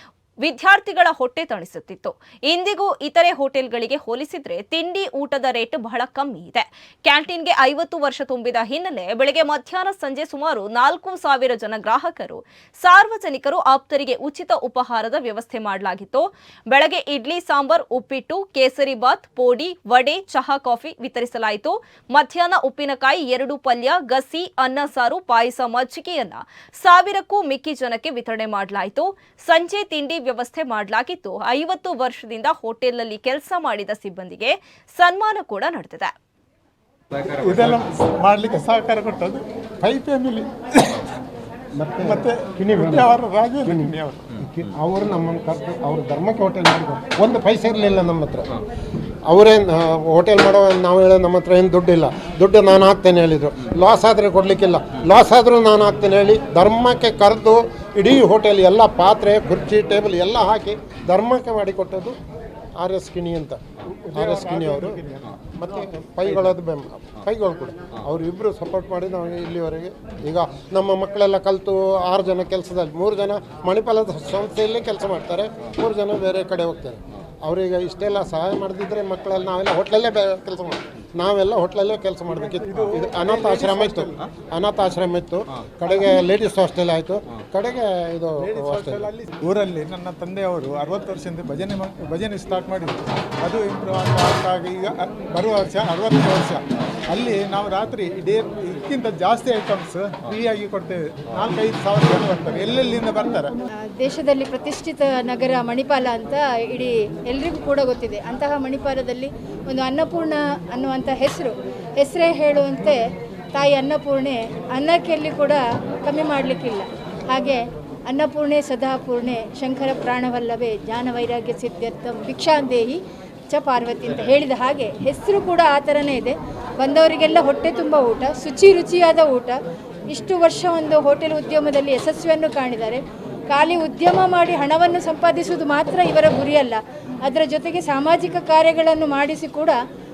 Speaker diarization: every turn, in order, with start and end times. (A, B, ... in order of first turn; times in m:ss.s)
0:00.4-0:36.1 A
0:37.3-0:41.0 B
0:41.8-0:48.5 C
0:42.0-0:44.4 B
0:49.2-1:02.2 C
1:02.8-1:03.6 C
1:03.9-1:05.3 B
1:04.1-1:29.1 C
1:22.5-1:24.2 B
1:28.4-1:43.6 B
1:43.9-1:53.0 D
1:53.5-2:09.6 D
2:10.1-2:19.8 D